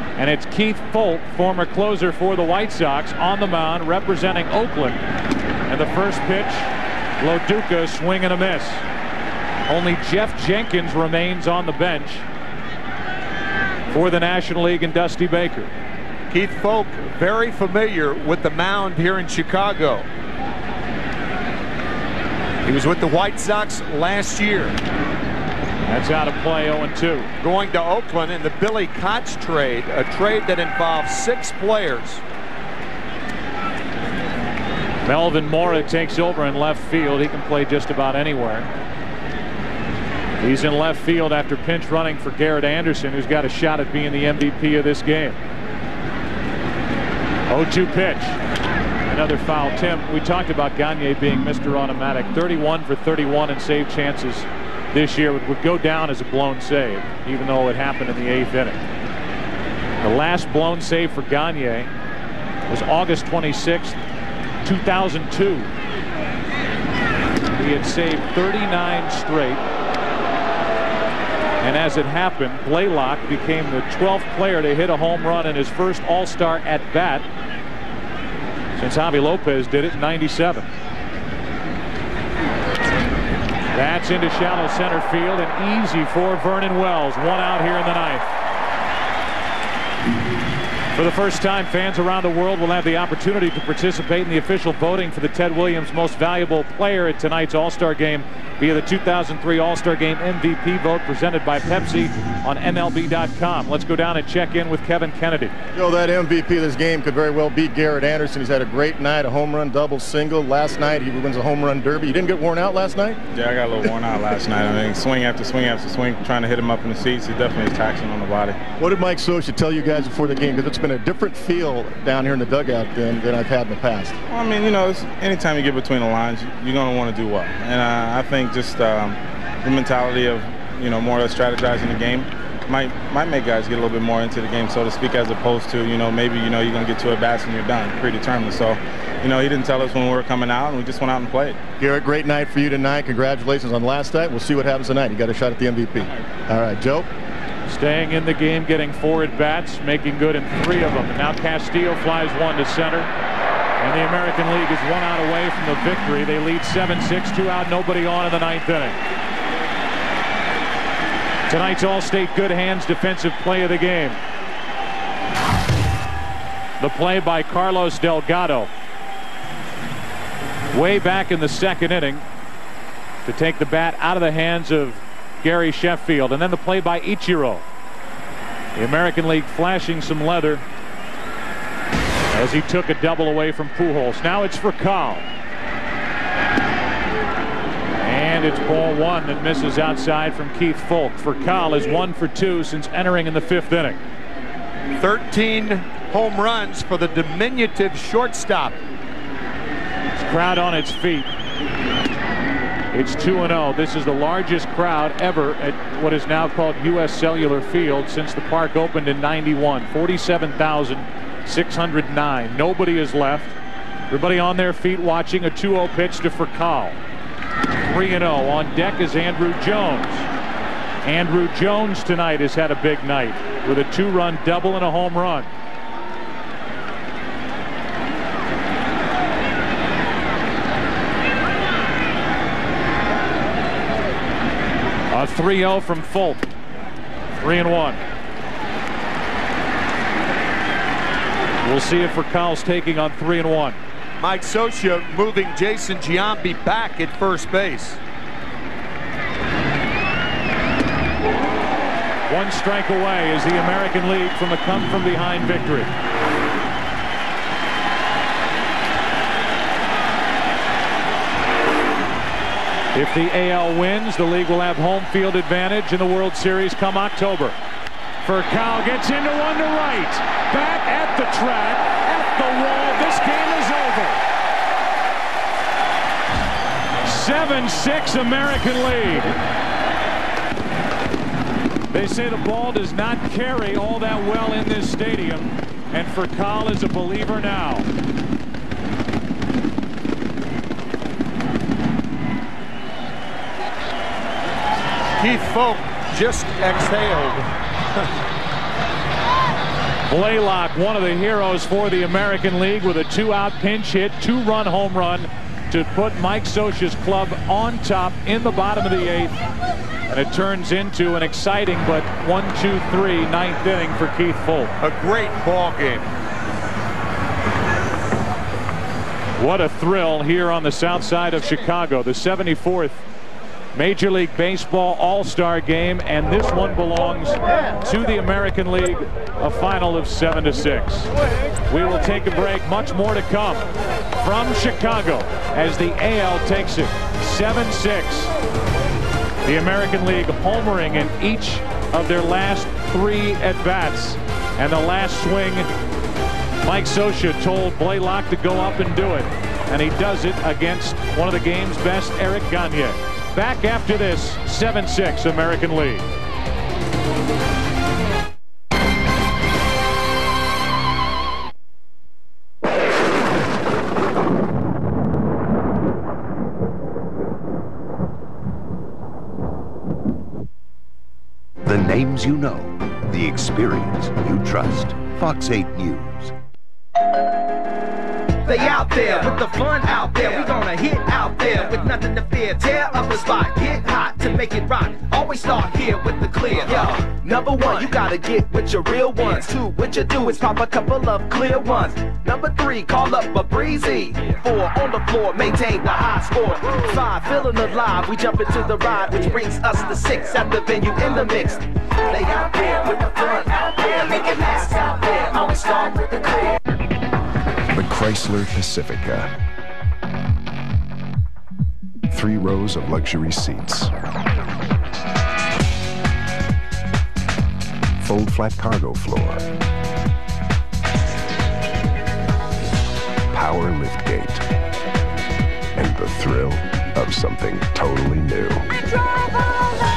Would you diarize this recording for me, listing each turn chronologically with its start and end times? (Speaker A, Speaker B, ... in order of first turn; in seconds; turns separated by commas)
Speaker A: 0.2-5.0, Speaker A: 5.7-8.8, Speaker A: 9.7-12.3, Speaker A: 13.9-15.7, Speaker B: 16.3-20.1, Speaker B: 22.7-24.8, Speaker A: 25.9-27.3, Speaker B: 27.4-32.2, Speaker A: 35.0-38.7, Speaker A: 40.4-45.4, Speaker A: 47.5-48.4, Speaker A: 49.1-58.8, Speaker A: 60.0-61.9, Speaker A: 62.7-64.0, Speaker A: 64.6-65.7, Speaker A: 67.6-69.6, Speaker A: 71.6-77.2, Speaker A: 78.8-80.7, Speaker A: 83.7-88.3, Speaker A: 90.9-105.5, Speaker C: 105.7-113.2, Speaker D: 113.3-118.6, Speaker C: 118.8-124.2, Speaker D: 124.3-141.6, Speaker C: 141.8-147.1, Speaker A: 147.7-153.1, Speaker A: 153.8-159.0, Speaker A: 161.5-164.2, Speaker A: 166.8-168.7, Speaker A: 170.7-172.2, Speaker A: 173.3-177.6, Speaker A: 178.8-180.6, Speaker A: 182.3-185.2, Speaker A: 188.0-194.0, Speaker B: 195.0-198.8, Speaker A: 200.2-201.3, Speaker A: 202.9-213.5, Speaker A: 214.1-217.0, Speaker A: 217.8-220.3, Speaker A: 221.0-225.5, Speaker A: 235.1-236.5, Speaker A: 237.4-238.0, Speaker A: 241.6-243.8, Speaker B: 244.2-248.0, Speaker A: 252.3-255.9, Speaker A: 262.9-267.6, Speaker A: 268.2-274.2, Speaker A: 277.0-279.3, Speaker A: 281.9-287.9, Speaker B: 295.2-297.5, Speaker A: 300.1-309.4, Speaker A: 310.1-314.7, Speaker B: 314.8-316.1, Speaker A: 319.4-323.0, Speaker A: 323.8-331.1, Speaker A: 331.7-333.7, Speaker A: 334.2-338.3, Speaker A: 339.4-345.7, Speaker A: 346.6-356.0, Speaker E: 371.6-376.3, Speaker F: 378.4-406.3, Speaker G: 407.7-409.3, Speaker G: 412.1-413.9, Speaker G: 418.0-419.4, Speaker G: 423.3-424.4, Speaker G: 425.8-428.6